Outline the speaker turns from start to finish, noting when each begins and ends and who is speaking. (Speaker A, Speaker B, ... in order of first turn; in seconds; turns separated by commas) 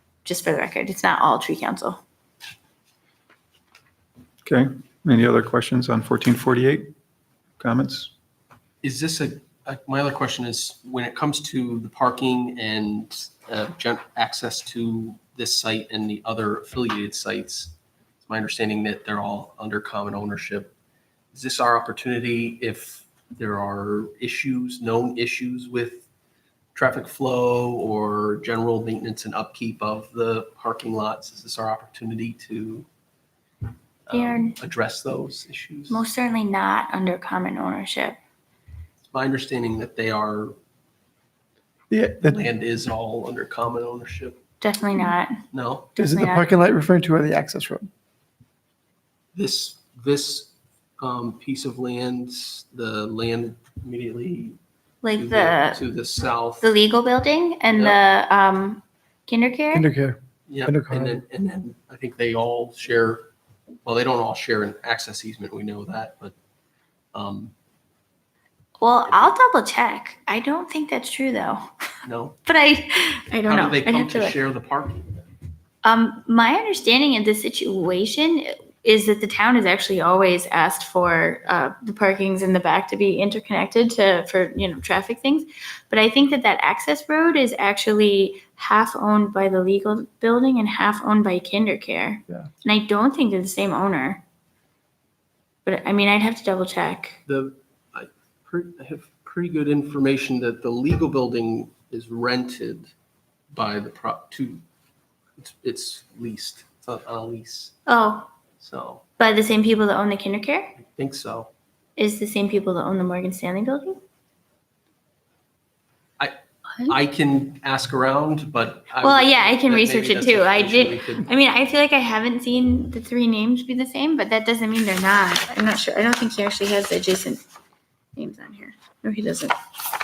Speaker A: 0.2-2.0, Speaker B: 4.4-6.9, Speaker B: 7.6-8.1, Speaker C: 8.8-20.7, Speaker C: 21.3-26.1, Speaker C: 26.7-32.9, Speaker C: 34.1-36.0, Speaker A: 34.1-34.5, Speaker A: 35.9-38.2, Speaker C: 39.1-40.5, Speaker D: 41.9-42.4, Speaker C: 42.2-44.4, Speaker A: 44.6-45.4, Speaker C: 45.5-45.9, Speaker A: 46.0-46.5, Speaker D: 46.0-47.9, Speaker C: 49.3-54.6, Speaker A: 55.0-55.8, Speaker C: 55.1-56.7, Speaker A: 56.6-59.9, Speaker C: 57.7-58.0, Speaker D: 59.7-61.2, Speaker C: 60.5-63.3, Speaker C: 63.8-66.3, Speaker C: 67.1-67.5, Speaker A: 68.8-71.7, Speaker C: 72.0-72.4, Speaker A: 72.4-74.4, Speaker C: 73.5-75.1, Speaker A: 75.8-94.2, Speaker A: 95.6-97.2, Speaker C: 97.3-102.9, Speaker C: 103.5-104.6, Speaker C: 105.4-107.8, Speaker A: 107.9-108.3, Speaker C: 108.6-109.0, Speaker A: 109.2-110.7, Speaker C: 110.8-111.5, Speaker A: 112.0-114.0, Speaker C: 116.2-121.3, Speaker A: 119.0-127.4, Speaker A: 128.2-129.5